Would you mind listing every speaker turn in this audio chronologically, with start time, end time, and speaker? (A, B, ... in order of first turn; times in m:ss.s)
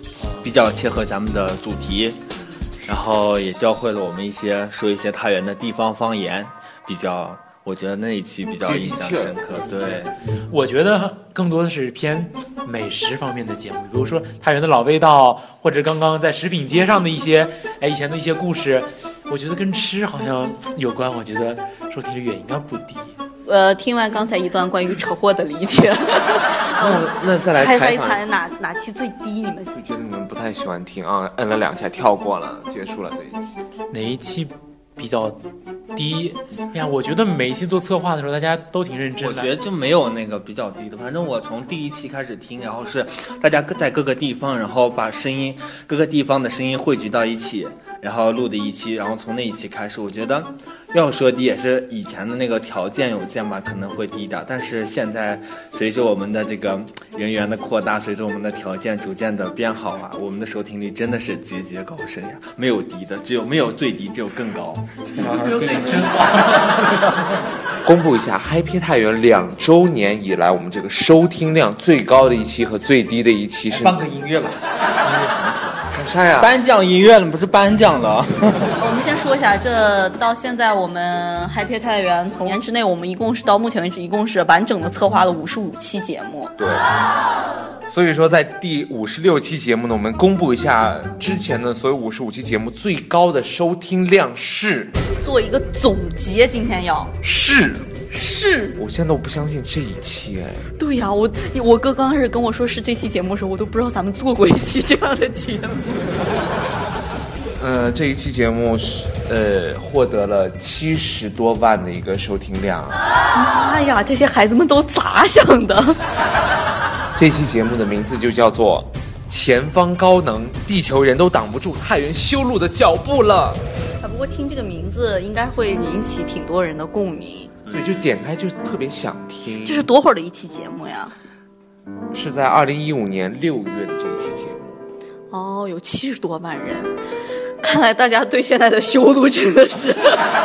0:00.4-0:02.2 A
0:02.8-0:10.1 A
0:08.7-0:23.2 B
0:23.4-0:29.7 C
0:26.8-0:28.2 D
0:29.7-0:33.6 D
0:33.9-0:35.4 B
0:35.9-0:39.5 B
0:39.2-1:06.1 A
1:05.2-1:07.4 B
1:07.8-1:14.0 D
1:13.7-1:18.7 A
1:15.9-1:16.5 D
1:18.8-1:26.5 C
1:26.6-1:26.9 D
1:27.9-1:34.9 D
1:35.2-1:37.1 C
1:37.2-1:37.9 D
1:38.1-1:38.8 C
1:38.8-1:40.7 D
1:40.8-1:46.2 C
1:47.6-1:53.0 D
1:53.3-1:56.0 C
1:57.2-2:03.6 D
2:04.0-2:07.5 C
2:07.7-2:09.9 D
2:09.6-2:11.1 C
2:12.1-2:14.6 D
2:15.3-2:16.9 C
2:17.6-2:20.2 C